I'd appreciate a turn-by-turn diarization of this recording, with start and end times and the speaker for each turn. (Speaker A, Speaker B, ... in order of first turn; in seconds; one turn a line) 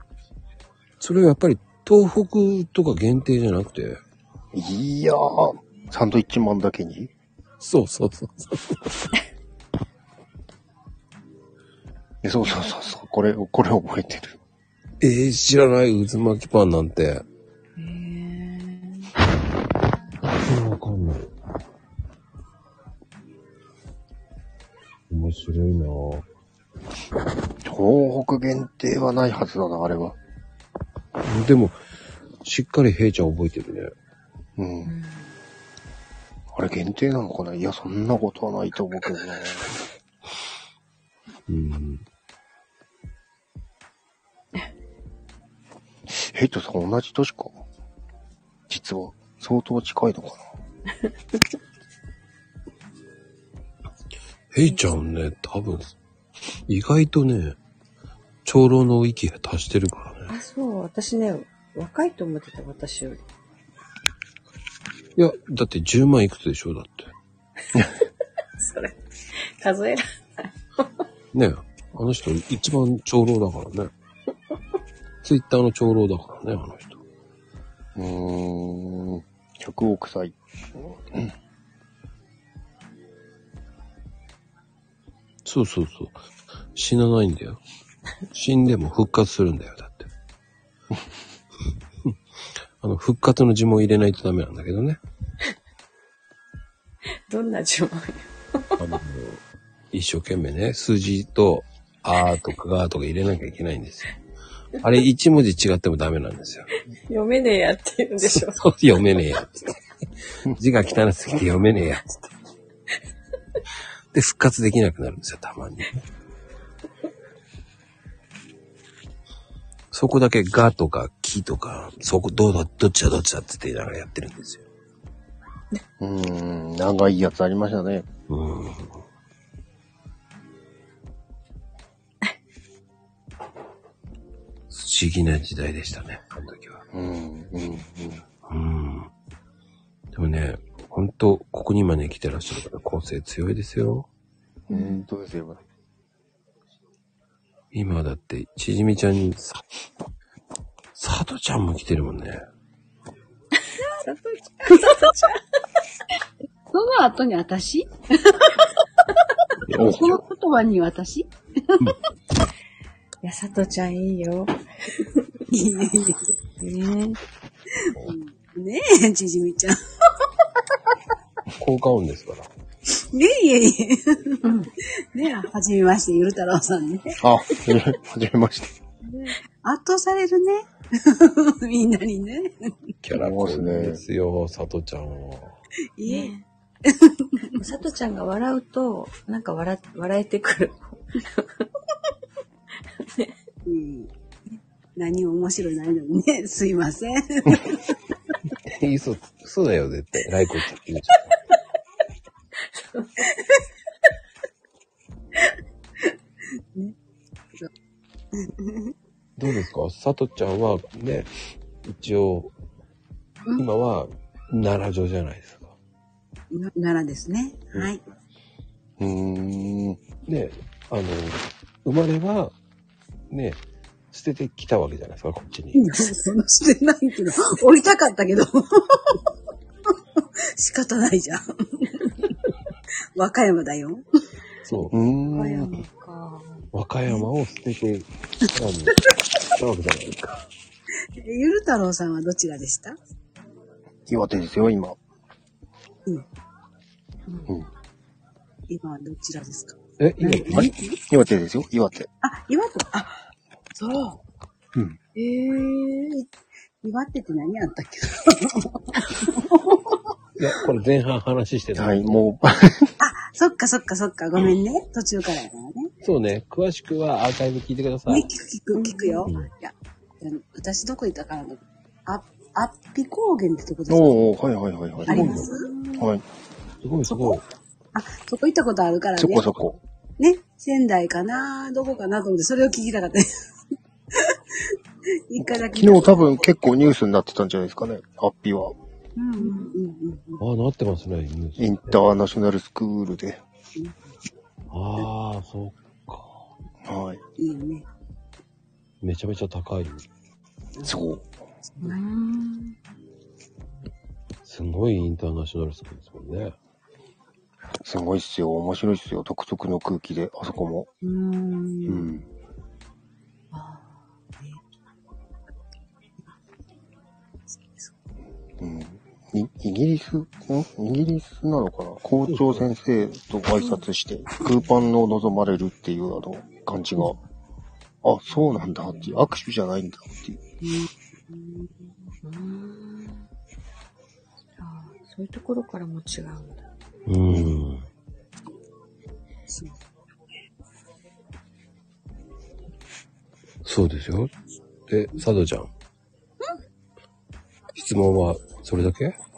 Speaker A: 1.0-4.0
Speaker B: 4.5-7.1
Speaker A: 7.6-9.1
Speaker B: 12.2-14.4
Speaker A: 15.0-17.2
Speaker C: 17.8-19.1
Speaker A: 20.2-21.3
Speaker A: 25.1-26.3
Speaker B: 27.6-30.2
Speaker A: 31.2-31.8
Speaker A: 32.4-33.9
Speaker B: 34.6-34.9
Speaker C: 34.9-35.3
Speaker B: 36.5-39.7
Speaker A: 41.5-42.0
Speaker B: 46.1-47.6
Speaker B: 48.7-50.4
Speaker A: 54.5-55.9
Speaker C: 54.7-55.0
Speaker A: 56.7-57.6
Speaker A: 58.5-60.3
Speaker C: 60.3-63.2
Speaker A: 65.2-67.1
Speaker C: 68.6-71.0
Speaker A: 71.3-73.9
Speaker A: 75.2-77.0
Speaker B: 78.0-81.3
Speaker A: 85.5-86.2
Speaker A: 86.8-87.6
Speaker A: 88.3-90.1
Speaker A: 92.8-95.0
Speaker C: 97.3-98.8
Speaker A: 98.8-104.1
Speaker A: 104.8-106.7
Speaker C: 107.1-108.6
Speaker A: 108.2-109.8
Speaker A: 110.5-112.3
Speaker A: 114.1-116.0
Speaker A: 119.9-124.7
Speaker B: 126.0-128.1
Speaker A: 128.3-129.0
Speaker A: 134.7-136.8
Speaker B: 136.9-138.2
Speaker A: 138.5-139.1
Speaker A: 140.1-144.1
Speaker B: 144.7-145.6
Speaker C: 144.7-145.0
Speaker A: 147.7-149.6
Speaker A: 150.9-152.4
Speaker C: 154.0-155.4
Speaker D: 156.7-158.6
Speaker A: 159.7-160.2
Speaker B: 159.7-160.0
Speaker D: 159.8-162.0
Speaker C: 163.2-165.2
Speaker D: 165.5-166.3
Speaker C: 166.6-167.2
Speaker D: 167.8-170.9
Speaker A: 171.6-172.5
Speaker D: 172.9-177.2
Speaker B: 177.2-178.7
Speaker D: 179.0-182.9
Speaker A: 183.0-185.6
Speaker B: 183.1-184.0
Speaker D: 186.0-186.3
Speaker C: 186.1-186.4
Speaker D: 186.8-187.6
Speaker C: 187.6-191.7
Speaker C: 193.0-193.3
Speaker D: 193.7-194.1
Speaker D: 195.0-198.0
Speaker A: 198.7-201.3
Speaker C: 202.8-203.1
Speaker D: 208.3-208.9
Speaker A: 209.4-211.3
Speaker A: 211.8-212.5
Speaker A: 213.6-215.8
Speaker D: 216.5-218.0
Speaker B: 219.0-220.0
Speaker A: 220.3-222.5
Speaker A: 223.3-223.6
Speaker A: 224.1-225.9
Speaker D: 225.8-229.2
Speaker D: 230.2-232.3
Speaker D: 233.2-234.0
Speaker A: 234.7-234.9
Speaker B: 234.9-235.8
Speaker C: 235.3-236.7
Speaker A: 236.7-240.4
Speaker D: 241.2-243.0
Speaker B: 244.1-245.0
Speaker D: 248.7-251.0
Speaker A: 250.0-250.7
Speaker B: 250.5-252.1
Speaker D: 252.2-253.2
Speaker D: 253.7-254.2
Speaker D: 255.2-256.3
Speaker D: 256.8-260.0
Speaker A: 260.4-262.3
Speaker B: 261.8-262.9
Speaker D: 263.0-265.9
Speaker A: 266.0-268.3
Speaker D: 268.1-274.3
Speaker C: 268.7-269.3
Speaker B: 273.9-275.4
Speaker D: 275.1-275.7
Speaker A: 275.1-275.5
Speaker C: 275.2-276.0
Speaker B: 276.0-276.2
Speaker A: 276.8-277.4
Speaker D: 277.1-277.4
Speaker D: 277.9-279.5
Speaker B: 279.2-279.8
Speaker D: 280.2-283.3
Speaker D: 284.1-284.8
Speaker D: 285.3-286.4
Speaker B: 285.4-288.8
Speaker D: 289.2-290.4
Speaker C: 289.4-289.8
Speaker A: 290.4-292.2
Speaker B: 291.6-293.4
Speaker A: 294.7-296.4
Speaker B: 296.9-297.2
Speaker D: 297.4-297.9
Speaker A: 299.0-300.1
Speaker D: 300.8-301.1
Speaker B: 300.8-301.3
Speaker D: 301.6-302.0
Speaker C: 301.8-302.8
Speaker A: 304.4-306.6
Speaker B: 307.8-310.9
Speaker D: 311.0-312.1
Speaker B: 311.9-312.3
Speaker C: 313.5-314.0
Speaker D: 317.5-317.9
Speaker B: 318.6-327.2
Speaker A: 322.3-322.7
Speaker B: 328.0-330.4
Speaker D: 330.6-331.7
Speaker C: 332.2-333.3
Speaker C: 334.6-336.6
Speaker A: 337.1-337.9
Speaker D: 339.5-339.8
Speaker A: 343.6-344.3
Speaker A: 344.9-345.7
Speaker A: 347.7-349.2